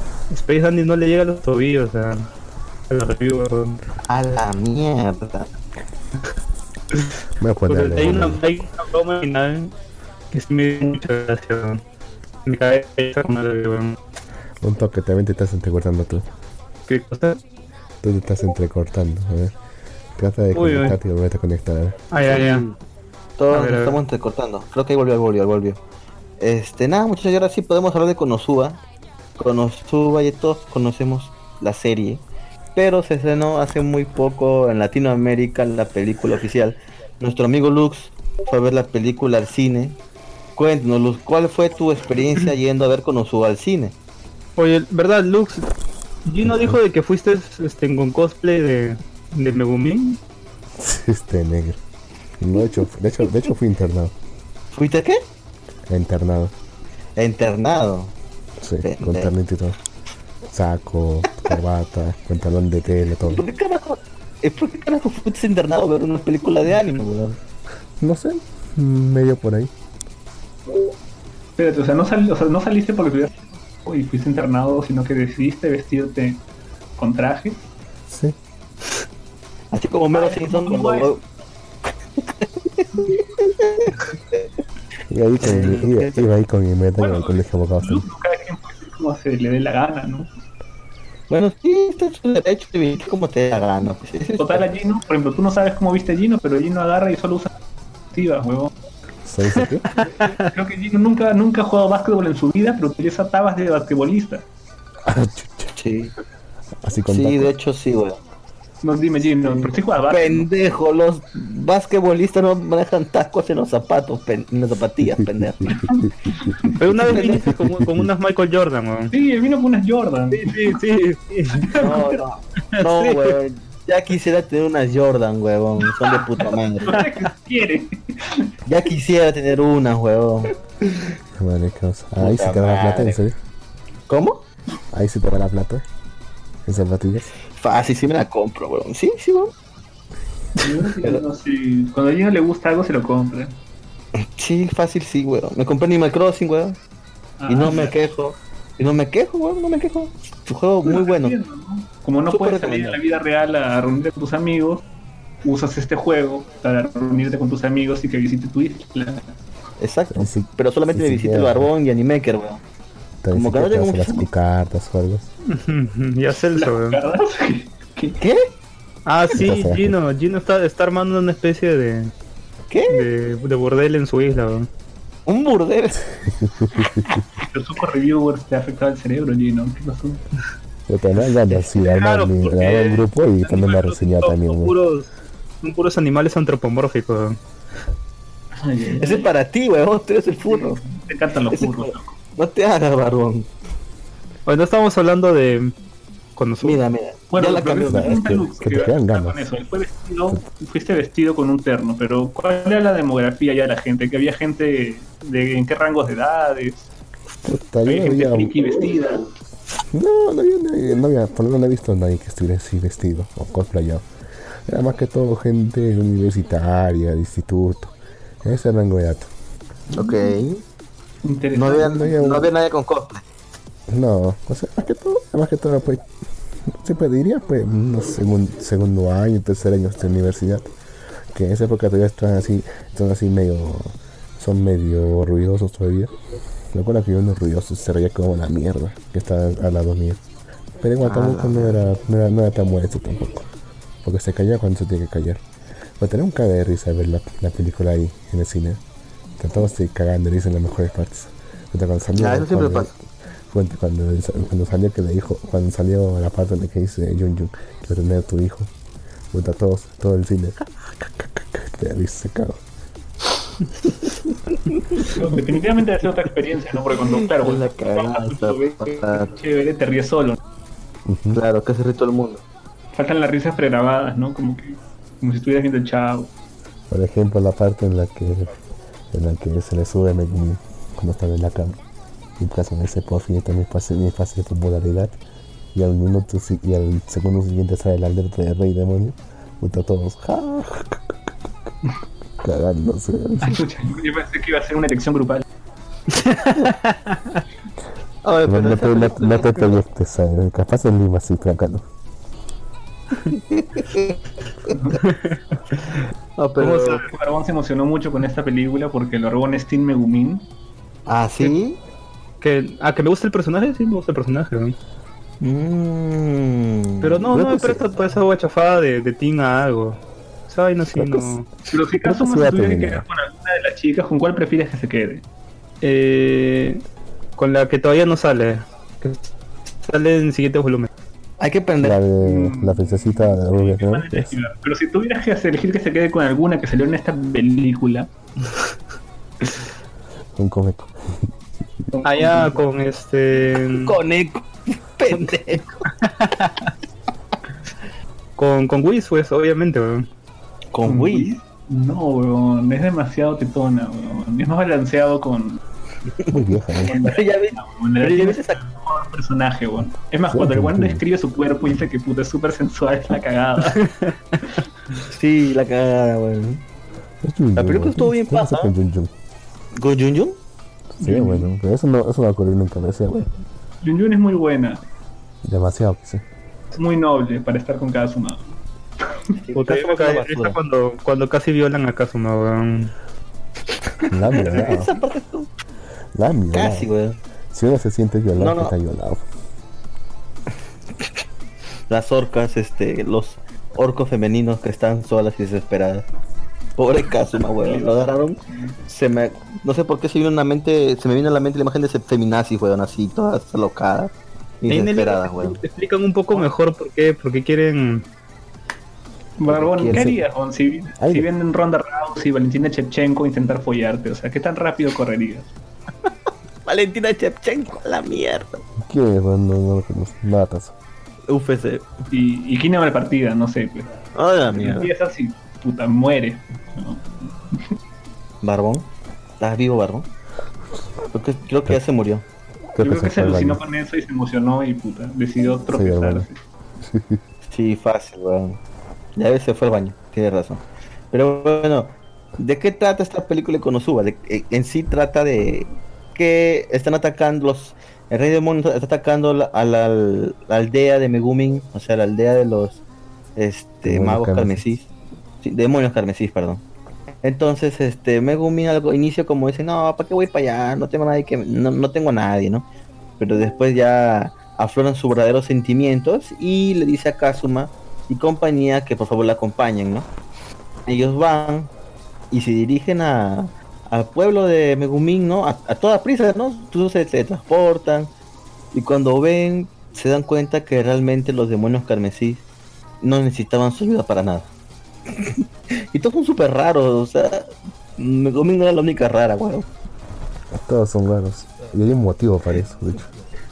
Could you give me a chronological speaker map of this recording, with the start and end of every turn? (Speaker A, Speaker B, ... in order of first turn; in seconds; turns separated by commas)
Speaker A: 0.3-2.3, Speaker A: 2.9-3.8, Speaker B: 4.1-5.5, Speaker C: 7.4-8.4, Speaker A: 7.7-9.7, Speaker A: 10.3-11.8, Speaker A: 12.5-14.0, Speaker C: 14.6-16.3, Speaker A: 16.9-17.4, Speaker C: 18.0-19.6, Speaker C: 20.2-22.5, Speaker A: 20.5-21.0, Speaker A: 22.1-22.6, Speaker B: 22.3-22.8, Speaker B: 23.4-25.8, Speaker A: 23.5-24.0, Speaker B: 26.4-28.8, Speaker B: 29.4-32.2, Speaker B: 32.8-40.0, Speaker B: 40.6-44.0, Speaker A: 44.6-45.7, Speaker A: 46.3-50.2, Speaker C: 46.5-46.8, Speaker C: 50.8-51.8, Speaker C: 52.4-54.1, Speaker B: 54.7-55.2, Speaker C: 55.9-56.5, Speaker B: 57.2-58.1, Speaker C: 58.6-59.8, Speaker B: 58.8-59.3, Speaker C: 60.5-63.4, Speaker B: 63.3-67.4, Speaker C: 68.0-69.7, Speaker D: 71.6-76.4, Speaker D: 77.0-77.7, Speaker C: 78.1-78.4, Speaker B: 79.7-81.2, Speaker D: 80.1-81.2, Speaker B: 82.8-84.5, Speaker C: 85.1-88.0, Speaker B: 85.4-86.2, Speaker D: 87.0-90.3, Speaker B: 91.3-94.7, Speaker D: 94.4-97.5, Speaker D: 98.1-98.7, Speaker C: 99.2-99.9, Speaker A: 99.9-100.5, Speaker D: 100.4-104.5, Speaker C: 105.0-105.7, Speaker B: 105.8-106.1, Speaker C: 106.8-107.5, Speaker B: 107.1-108.2, Speaker D: 108.8-110.5, Speaker B: 109.5-115.8, Speaker C: 115.0-115.4, Speaker D: 115.7-116.6, Speaker A: 116.8-119.1, Speaker C: 116.9-118.0, Speaker B: 117.1-117.5, Speaker D: 119.1-120.8, Speaker A: 120.3-121.7, Speaker D: 121.6-122.2, Speaker B: 121.8-127.0, Speaker A: 122.7-123.4, Speaker D: 126.4-128.5, Speaker B: 128.7-130.5, Speaker C: 131.4-133.4, Speaker B: 132.2-133.2, Speaker B: 134.1-134.4, Speaker C: 134.9-135.8, Speaker C: 136.7-137.3, Speaker B: 137.5-139.5, Speaker D: 140.6-143.6, Speaker B: 144.4-146.8, Speaker D: 147.4-148.0, Speaker B: 147.5-151.4, Speaker D: 150.8-154.9, Speaker B: 152.3-153.0, Speaker D: 155.4-159.2, Speaker B: 159.8-162.6, Speaker C: 160.1-161.7, Speaker C: 163.2-165.3, Speaker B: 163.3-164.3, Speaker A: 165.5-167.0, Speaker D: 166.4-168.2, Speaker B: 168.2-168.5, Speaker A: 169.1-172.1, Speaker C: 169.3-170.0, Speaker B: 172.7-173.1, Speaker A: 172.9-174.7, Speaker B: 175.3-176.1, Speaker C: 176.2-177.1, Speaker D: 177.4-180.2, Speaker C: 180.9-184.8, Speaker A: 181.8-185.1, Speaker A: 185.6-187.4, Speaker D: 188.6-189.3, Speaker B: 189.0-190.8, Speaker D: 190.5-192.2, Speaker B: 191.5-193.5, Speaker A: 194.5-195.7, Speaker A: 196.4-196.8, Speaker B: 196.6-198.3, Speaker D: 197.3-206.9, Speaker C: 197.8-199.4, Speaker C: 207.4-208.7, Speaker D: 207.9-209.3, Speaker C: 209.9-214.1, Speaker C: 214.7-219.3, Speaker D: 219.9-220.3, Speaker B: 219.9-220.6, Speaker D: 221.2-222.1, Speaker B: 221.5-223.2, Speaker C: 221.8-222.5, Speaker C: 223.9-226.1, Speaker C: 226.7-230.7, Speaker C: 231.3-236.1, Speaker C: 236.7-240.2, Speaker C: 240.8-243.5, Speaker B: 241.0-241.8, Speaker C: 244.0-245.4, Speaker C: 246.0-248.8, Speaker C: 249.4-252.9, Speaker B: 252.2-252.9, Speaker C: 253.5-258.7, Speaker C: 259.3-262.6, Speaker D: 265.1-270.4, Speaker B: 267.4-269.3, Speaker C: 271.1-271.4, Speaker B: 271.3-272.4, Speaker D: 272.9-276.3, Speaker C: 276.9-278.5, Speaker C: 279.1-281.8, Speaker C: 282.4-285.1, Speaker C: 285.7-291.2, Speaker C: 292.4-293.6, Speaker D: 293.4-295.4, Speaker A: 296.1-297.4, Speaker B: 298.2-299.8, Speaker C: 298.4-301.8, Speaker B: 303.3-305.0, Speaker A: 304.9-305.8, Speaker B: 306.4-307.0, Speaker A: 306.6-307.1, Speaker D: 307.1-310.4, Speaker B: 311.1-311.8, Speaker A: 312.4-314.8, Speaker B: 315.4-317.2, Speaker A: 317.0-321.5, Speaker C: 317.3-317.8, Speaker C: 320.8-321.4, Speaker D: 321.7-325.2, Speaker C: 322.0-323.1, Speaker A: 325.8-326.8, Speaker A: 327.4-329.3, Speaker A: 329.8-330.9, Speaker B: 331.4-332.0, Speaker C: 331.8-334.3, Speaker D: 332.2-338.1, Speaker C: 340.4-341.2, Speaker D: 342.0-342.6, Speaker A: 342.0-344.0, Speaker B: 343.9-345.8, Speaker A: 345.9-346.5, Speaker A: 348.4-350.1, Speaker B: 350.7-351.4, Speaker D: 350.9-355.6, Speaker B: 356.3-358.6, Speaker C: 356.3-357.0, Speaker D: 356.8-363.9, Speaker C: 360.3-361.0, Speaker A: 363.8-364.1, Speaker B: 365.1-366.6, Speaker C: 367.2-369.1, Speaker B: 367.6-368.7, Speaker B: 369.8-370.4, Speaker C: 371.0-373.4, Speaker D: 371.0-371.5, Speaker D: 373.8-374.8, Speaker C: 375.4-376.2, Speaker D: 376.7-378.4, Speaker B: 379.4-380.6, Speaker A: 379.6-382.9, Speaker C: 384.1-385.0, Speaker B: 384.3-385.5, Speaker C: 386.1-386.9, Speaker B: 386.5-387.2, Speaker C: 387.5-389.2, Speaker B: 388.4-388.7, Speaker B: 391.9-396.1, Speaker B: 396.8-405.6, Speaker D: 397.6-398.7, Speaker A: 404.7-408.1, Speaker D: 409.4-415.5, Speaker C: 409.5-410.2, Speaker C: 411.0-411.3, Speaker B: 416.7-418.6, Speaker C: 418.8-420.8, Speaker B: 421.3-421.9, Speaker D: 422.1-423.9, Speaker B: 424.2-424.9, Speaker D: 424.5-427.7, Speaker B: 428.4-430.1, Speaker B: 431.1-432.2, Speaker C: 432.8-433.6, Speaker D: 432.8-436.4, Speaker C: 435.7-436.3, Speaker C: 436.8-437.2, Speaker B: 437.5-438.6, Speaker B: 439.2-452.8, Speaker B: 453.4-454.9, Speaker C: 453.8-454.7, Speaker B: 455.4-456.6, Speaker B: 457.2-462.7, Speaker B: 463.2-470.1, Speaker B: 470.9-471.7, Speaker B: 472.3-478.1, Speaker B: 478.7-482.4, Speaker B: 483.0-484.5, Speaker B: 485.1-489.7, Speaker C: 490.5-493.1